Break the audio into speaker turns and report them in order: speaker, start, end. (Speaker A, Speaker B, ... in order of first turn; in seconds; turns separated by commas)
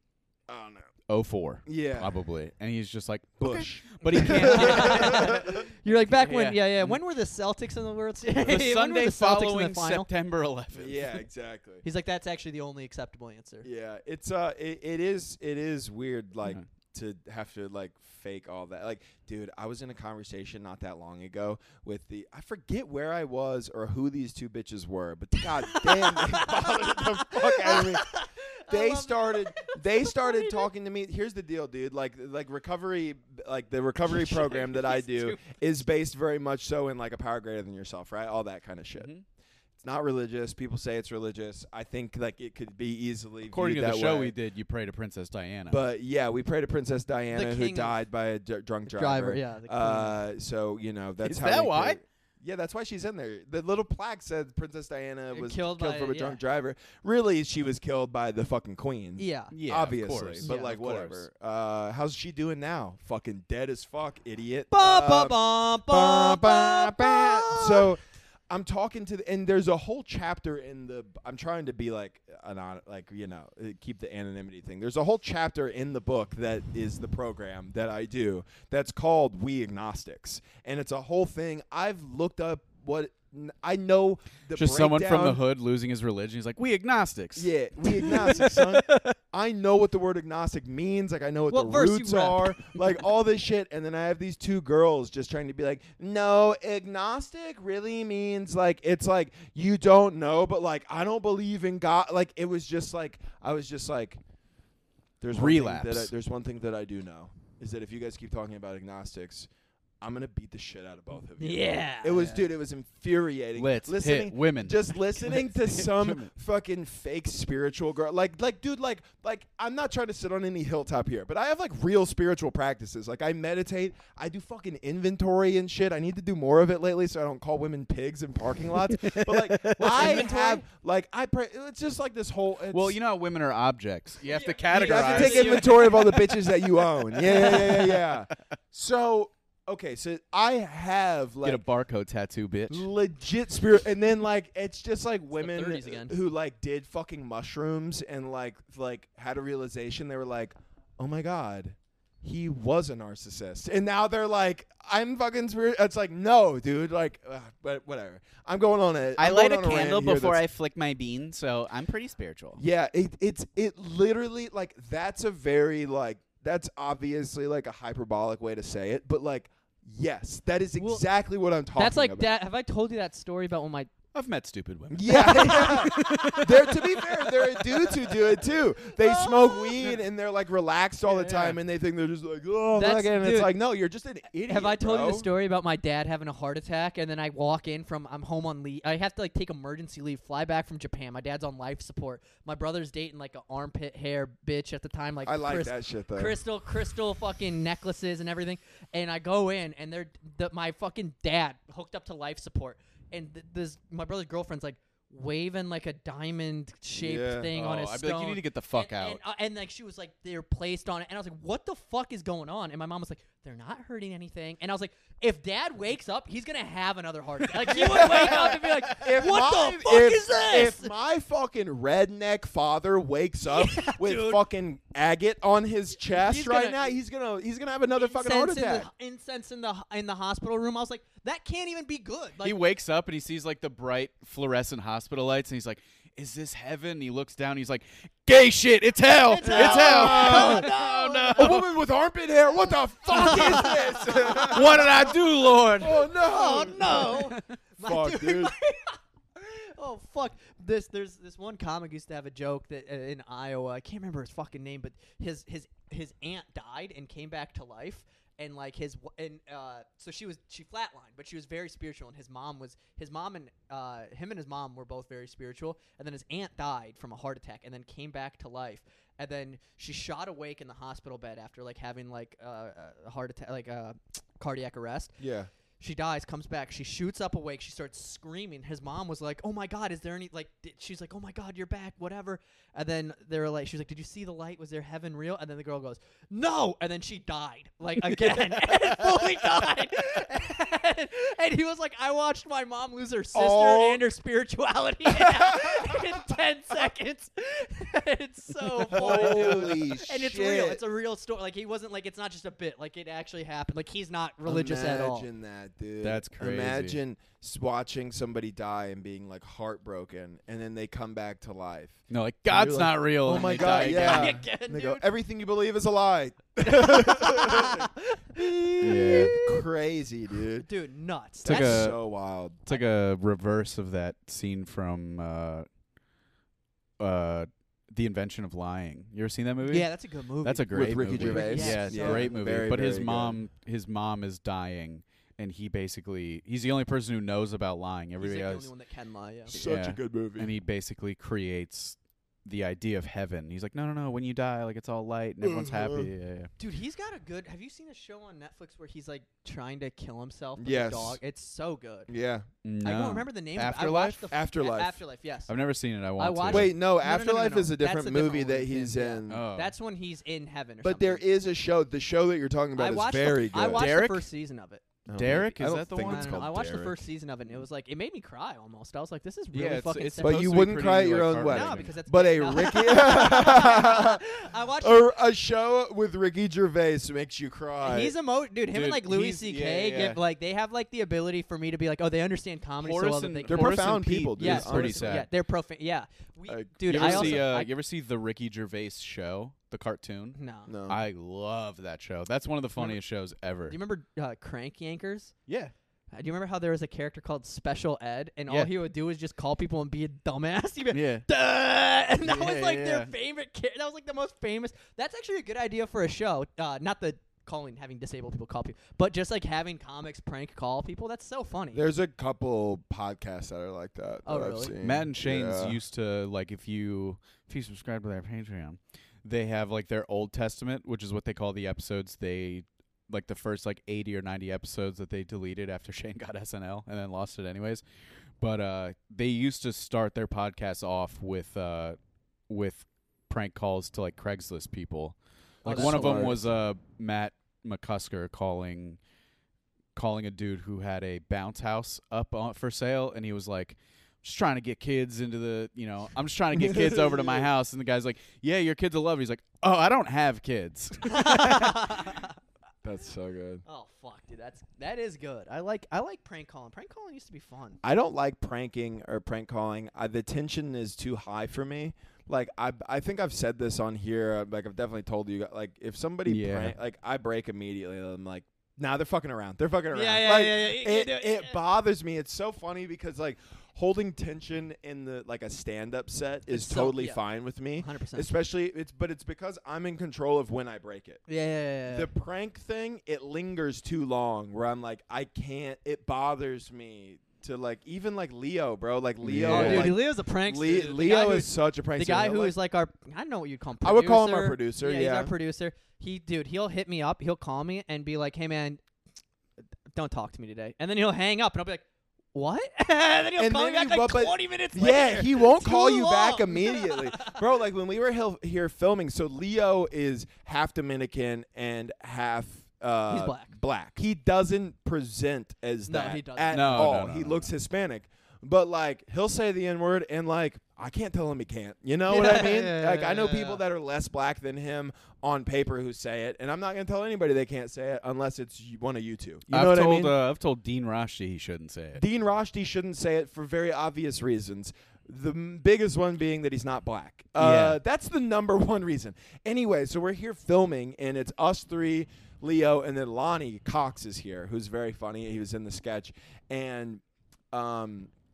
Speaker A: 0.5-0.9, Speaker B: 1.1-7.0, Speaker A: 1.7-2.2, Speaker A: 3.4-5.5, Speaker C: 4.0-10.1, Speaker B: 8.3-11.2, Speaker A: 10.7-11.8, Speaker C: 11.8-13.7, Speaker A: 13.6-28.1, Speaker C: 25.7-30.7, Speaker A: 28.7-39.1, Speaker C: 34.1-35.6, Speaker B: 39.0-39.2, Speaker A: 39.8-44.4, Speaker B: 43.5-45.8, Speaker A: 45.7-85.4, Speaker C: 47.3-47.9, Speaker C: 48.9-50.2, Speaker B: 51.2-52.0, Speaker C: 55.3-56.4, Speaker C: 59.2-59.5, Speaker B: 59.5-61.2, Speaker C: 60.4-60.7, Speaker C: 64.7-67.9, Speaker B: 84.6-89.2, Speaker A: 87.4-104.2, Speaker C: 91.5-92.6, Speaker A: 105.2-109.5, Speaker B: 105.3-106.1, Speaker A: 110.0-133.0, Speaker C: 111.4-112.5, Speaker B: 113.6-116.3, Speaker B: 128.9-130.4, Speaker C: 129.8-130.6, Speaker B: 132.7-136.5, Speaker C: 134.3-136.2, Speaker A: 134.7-141.6, Speaker B: 137.1-138.4, Speaker B: 141.4-142.9, Speaker A: 142.7-160.4, Speaker C: 145.4-146.2, Speaker B: 159.2-162.6, Speaker A: 162.6-172.3, Speaker C: 170.8-171.0, Speaker C: 171.8-173.9, Speaker B: 174.1-177.5, Speaker A: 174.9-185.3, Speaker C: 175.1-176.5, Speaker C: 178.9-179.9, Speaker B: 181.1-181.6, Speaker C: 182.8-183.6, Speaker C: 184.5-220.9, Speaker A: 195.2-196.4, Speaker A: 207.0-207.5, Speaker B: 207.5-209.2, Speaker B: 217.5-219.2, Speaker A: 217.7-228.9, Speaker C: 223.5-224.4, Speaker C: 226.1-227.0, Speaker C: 228.0-232.6, Speaker B: 232.4-241.7, Speaker C: 239.3-241.6, Speaker A: 239.4-240.7, Speaker A: 241.4-245.2, Speaker C: 243.1-244.9, Speaker B: 243.3-246.1, Speaker A: 245.8-247.3, Speaker C: 246.2-275.2, Speaker B: 246.8-247.4, Speaker A: 247.8-248.5, Speaker A: 275.2-275.5, Speaker C: 275.8-305.3, Speaker A: 293.3-294.0, Speaker A: 295.5-296.0, Speaker B: 298.8-299.9, Speaker A: 298.9-300.8, Speaker A: 304.5-320.7, Speaker B: 306.0-307.0, Speaker B: 312.1-314.4, Speaker C: 313.3-315.0, Speaker C: 316.6-319.6, Speaker B: 318.8-319.4, Speaker C: 320.6-321.9, Speaker A: 321.4-322.6, Speaker B: 321.4-322.0, Speaker B: 322.7-325.7, Speaker B: 327.0-338.7, Speaker C: 329.7-332.4, Speaker A: 330.7-333.4, Speaker C: 338.2-339.7, Speaker A: 339.5-340.5, Speaker B: 339.5-346.5, Speaker A: 345.4-346.1, Speaker C: 346.6-352.1, Speaker A: 350.6-351.2, Speaker A: 352.1-352.5, Speaker B: 352.6-354.3, Speaker C: 352.8-355.5, Speaker A: 354.3-355.0, Speaker B: 355.5-356.7, Speaker C: 356.2-361.2, Speaker A: 356.5-359.5, Speaker B: 359.3-359.7, Speaker A: 360.8-363.8, Speaker C: 362.8-364.8, Speaker B: 363.6-364.3, Speaker A: 365.1-366.9, Speaker B: 365.1-366.9, Speaker C: 366.0-370.4, Speaker B: 369.5-371.9, Speaker A: 370.2-374.2, Speaker C: 371.5-375.1, Speaker A: 374.8-378.1, Speaker C: 377.8-387.7, Speaker B: 378.7-380.2, Speaker B: 382.8-385.3, Speaker A: 383.5-385.3, Speaker A: 386.5-387.4, Speaker B: 386.9-393.8, Speaker C: 390.4-390.7, Speaker A: 390.7-391.0, Speaker C: 393.7-395.4, Speaker B: 395.5-395.7, Speaker C: 396.1-411.9, Speaker B: 400.9-401.3, Speaker B: 402.2-403.1, Speaker A: 411.7-415.8, Speaker C: 414.3-414.8, Speaker B: 414.8-427.8, Speaker B: 428.4-432.0, Speaker B: 432.5-439.0, Speaker C: 435.6-436.4, Speaker A: 435.6-436.5, Speaker B: 439.9-452.0, Speaker A: 446.6-447.5, Speaker C: 451.1-452.4, Speaker A: 452.8-453.6, Speaker C: 453.6-457.8, Speaker A: 457.8-481.2, Speaker B: 466.3-466.8, Speaker C: 469.9-471.6, Speaker C: 476.5-477.2, Speaker C: 477.8-478.3, Speaker C: 481.3-482.1, Speaker A: 481.9-492.6, Speaker B: 489.2-490.0, Speaker C: 489.4-498.8, Speaker A: 493.8-495.3, Speaker C: 499.9-507.4, Speaker A: 503.4-530.1, Speaker C: 513.1-513.5, Speaker C: 515.9-516.9, Speaker B: 516.5-517.5, Speaker C: 522.1-523.6, Speaker B: 529.5-532.0, Speaker A: 532.0-548.1, Speaker B: 537.4-537.8